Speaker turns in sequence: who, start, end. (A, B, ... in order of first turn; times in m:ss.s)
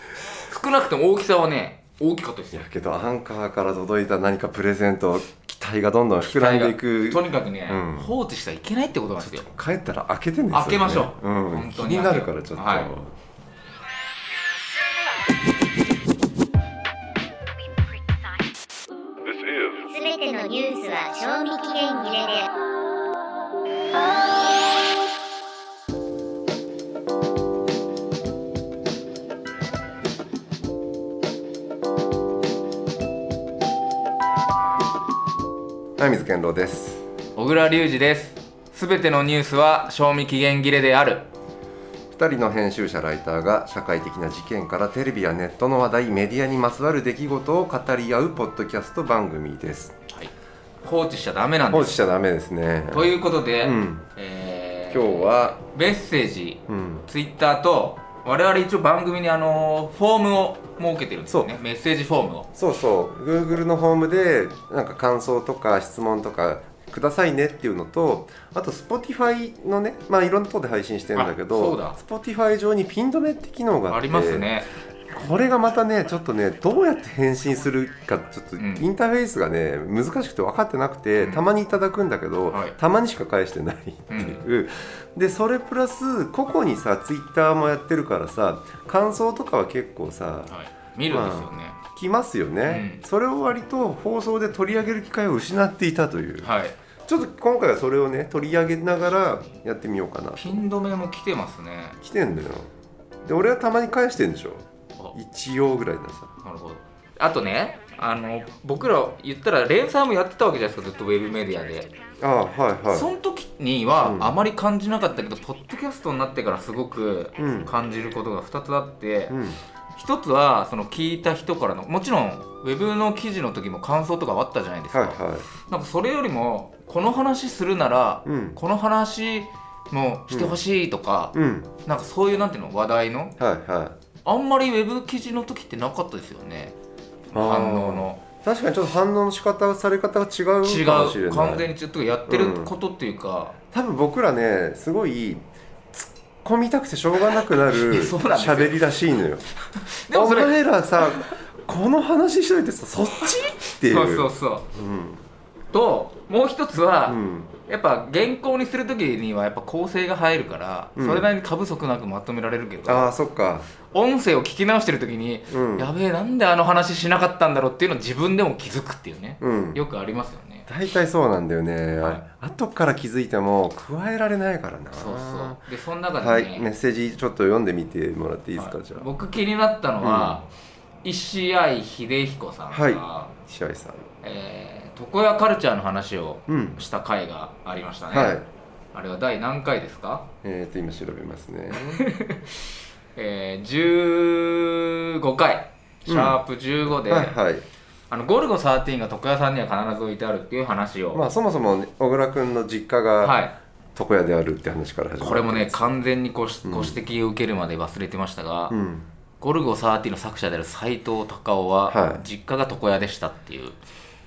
0:00.3-0:02.6 A
0:02.5-0:08.1 B
0:06.2-0:09.5 A
0:09.2-0:13.1 B
0:10.5-0:12.9 A
0:19.8-0:22.5 C
0:36.0-0:37.0 B
0:37.4-0:41.3 A
0:42.1-0:49.9 B
0:50.8-0:52.0 A
0:51.7-0:54.0 B
0:52.9-1:02.5 A
0:54.9-0:55.6 B
0:56.7-0:57.0 B
1:01.3-1:01.6 B
1:02.5-1:14.5 B
1:11.1-1:12.0 A
1:13.9-1:14.7 A
1:15.1-1:30.5 B
1:18.6-1:18.8 A
1:22.5-1:22.8 A
1:24.1-1:24.4 A
1:30.5-1:31.8 A
1:31.1-1:36.5 B
1:32.6-1:33.0 A
1:36.4-1:36.7 A
1:37.0-1:40.6 B
1:40.4-1:42.0 A
1:42.0-1:42.7 B
1:43.2-1:46.3 B
1:46.4-1:51.9 A
1:52.2-1:53.1 B
1:52.9-1:59.4 A
1:54.0-1:54.3 B
1:57.4-1:57.7 B
1:59.3-1:59.6 B
1:59.9-2:13.3 A
2:04.9-2:05.4 B
2:08.2-2:08.6 B
2:10.3-2:10.6 B
2:11.3-2:11.7 B
2:13.4-2:13.9 B
2:14.2-2:16.7 A
2:17.3-2:18.2 A
2:17.3-2:21.7 B
2:20.6-2:23.6 A
2:22.3-2:22.7 B
2:23.7-2:29.4 B
2:27.7-2:28.8 A
2:29.7-2:30.6 A
2:30.1-2:35.2 B
2:33.7-2:34.7 A
2:35.7-2:43.1 A
2:37.1-2:37.5 B
2:41.0-2:41.3 B
2:42.8-2:43.7 B
2:43.9-2:50.7 A
2:45.5-2:45.9 B
2:49.4-2:49.8 B
2:50.7-2:55.6 B
2:54.9-2:56.7 A
2:56.2-2:59.1 B
2:58.6-3:00.5 A
3:00.0-3:00.4 B
3:01.0-3:03.3 A
3:02.7-3:04.1 B
3:04.2-3:08.4 A
3:06.5-3:06.8 B
3:08.1-3:08.4 B
3:08.9-3:10.3 A
3:10.4-3:12.0 B
3:11.7-3:12.6 A
3:13.2-3:17.4 A
3:16.0-3:17.6 B
3:18.1-3:21.2 A
3:21.1-3:23.4 B
3:23.2-3:23.5 A
3:24.0-3:25.9 B
3:25.2-3:28.7 A
3:26.6-3:27.0 B
3:28.7-3:29.1 B
3:29.4-3:33.8 A
3:31.9-3:32.2 B